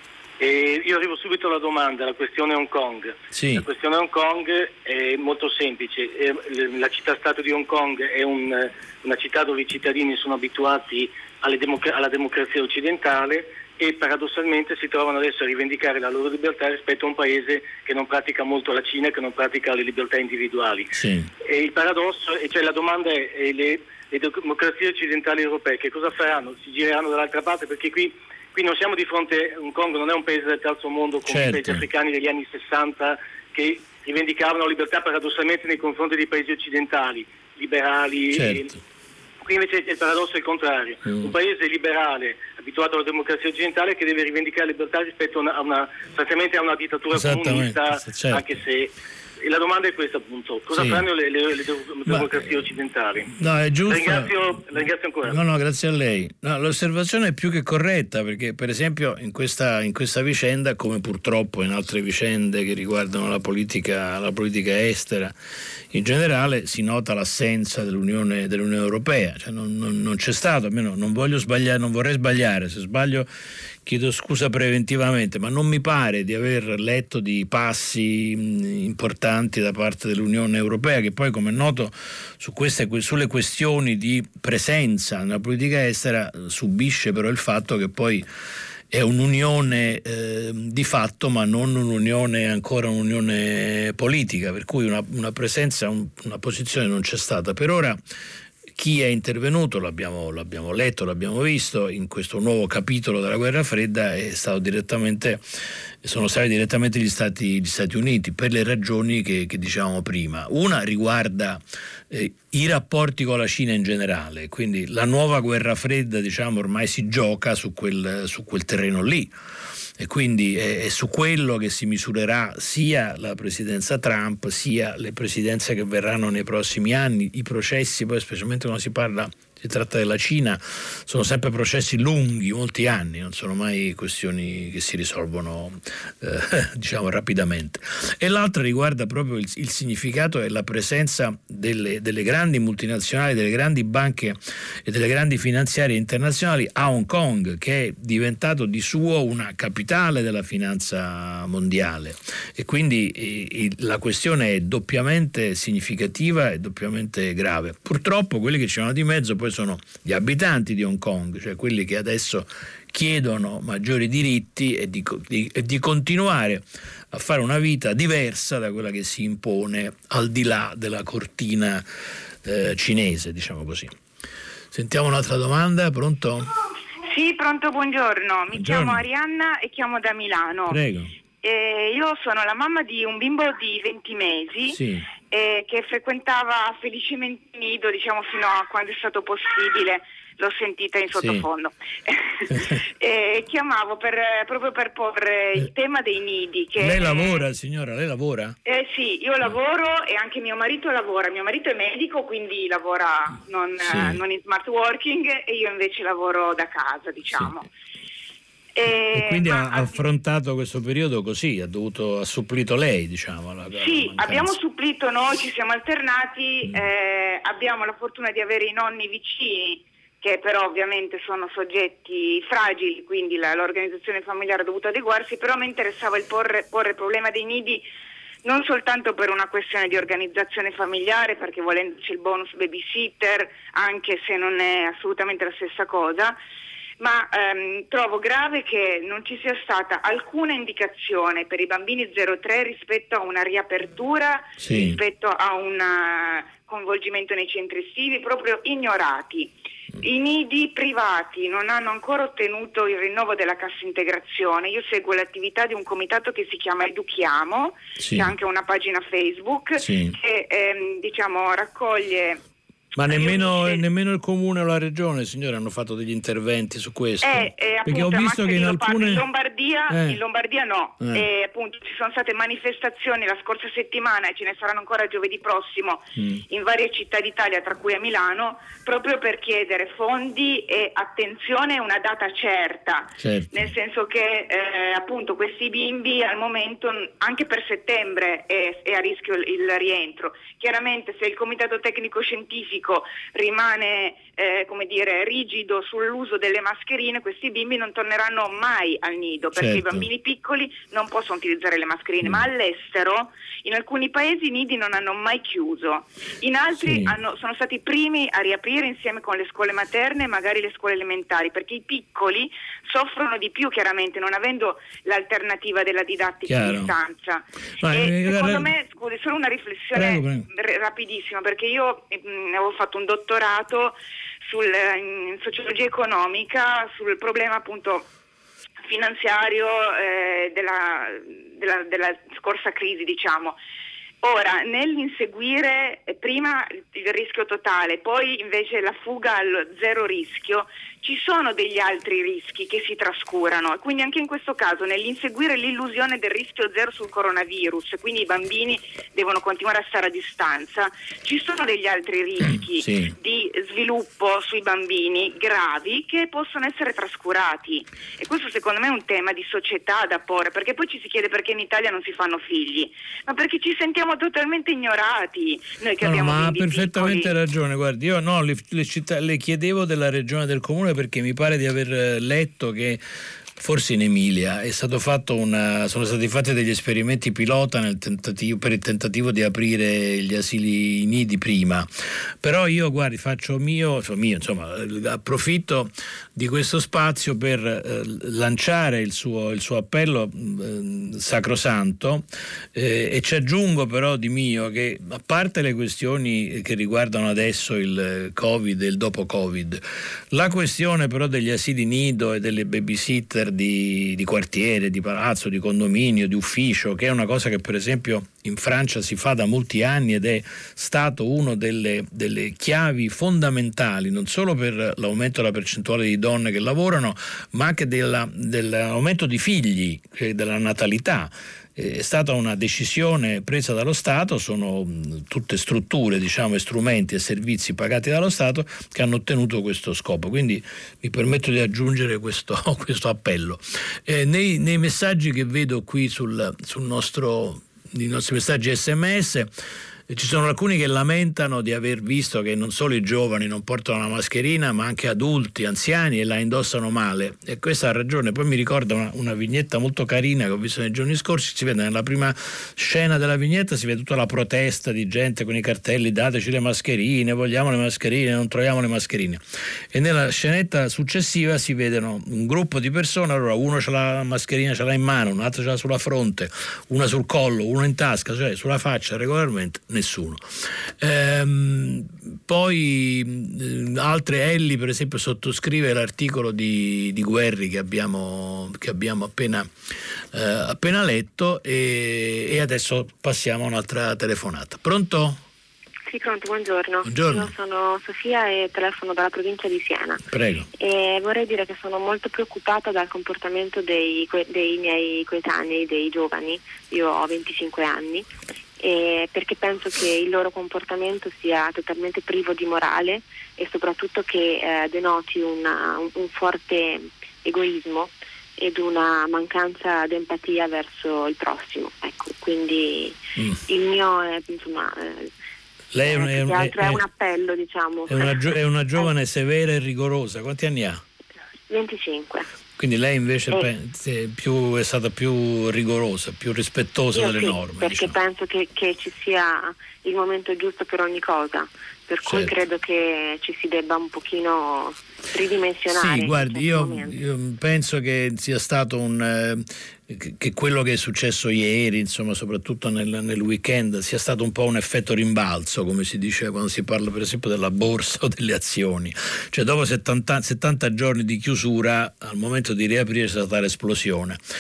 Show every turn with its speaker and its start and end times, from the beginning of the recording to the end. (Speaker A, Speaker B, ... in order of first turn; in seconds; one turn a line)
Speaker A: 0.4-20.9
Speaker B: 3.3-3.7
Speaker B: 20.9-21.3
Speaker A: 21.4-38.8
Speaker B: 31.3-31.9
Speaker B: 38.3-38.7
Speaker A: 39.4-48.9
Speaker B: 47.1-48.6
Speaker A: 49.4-53.4
Speaker B: 50.7-51.1
Speaker B: 52.1-52.5
Speaker B: 53.4-54.3
Speaker A: 53.9-55.4
Speaker B: 55.2-65.3
Speaker B: 65.9-73.3
Speaker B: 73.8-88.3
Speaker B: 88.9-98.0
Speaker B: 98.8-105.4
Speaker B: 106.0-119.3
Speaker B: 120.0-171.8
Speaker B: 172.4-173.9
Speaker B: 174.7-176.5
Speaker C: 177.1-180.8
Speaker B: 178.5-179.0
Speaker B: 180.7-181.1
Speaker C: 181.4-184.8
Speaker B: 184.7-185.1
Speaker C: 185.3-197.4
Speaker B: 191.2-191.4
Speaker B: 196.8-198.6
Speaker C: 198.7-207.7
Speaker B: 203.8-204.2
Speaker C: 208.8-210.0
Speaker B: 209.1-214.5
Speaker C: 213.8-227.8
Speaker C: 228.4-236.4
Speaker C: 237.0-262.4
Speaker B: 244.6-245.0
Speaker B: 258.0-258.3
Speaker B: 259.8-260.2
Speaker B: 263.0-269.3
Speaker C: 263.1-263.8
Speaker C: 267.2-324.0
Speaker B: 269.9-270.2
Speaker B: 271.0-271.3
Speaker B: 276.2-276.4
Speaker B: 283.2-283.7
Speaker B: 299.6-300.1
Speaker B: 306.8-307.2
Speaker B: 316.5-316.9
Speaker B: 317.8-318.7
Speaker B: 319.9-320.5
Speaker C: 324.5-328.1
Speaker C: 328.9-333.6
Speaker C: 334.2-367.3
Speaker B: 352.4-353.1
Speaker B: 366.0-373.0
Speaker B: 373.6-381.9
Speaker B: 382.4-439.5
Speaker B: 440.1-479.7
Speaker B: 480.3-485.4
Speaker D: 486.1-490.2
Speaker B: 487.0-487.5
Speaker B: 490.3-490.7
Speaker D: 490.8-498.3
Speaker D: 498.8-515.3
Speaker B: 515.9-517.0
Speaker D: 516.0-519.1
Speaker B: 518.1-521.0
Speaker D: 521.7-522.5
Speaker B: 522.8-528.2
Speaker D: 527.1-537.1
Speaker B: 532.2-532.5
Speaker B: 535.9-554.4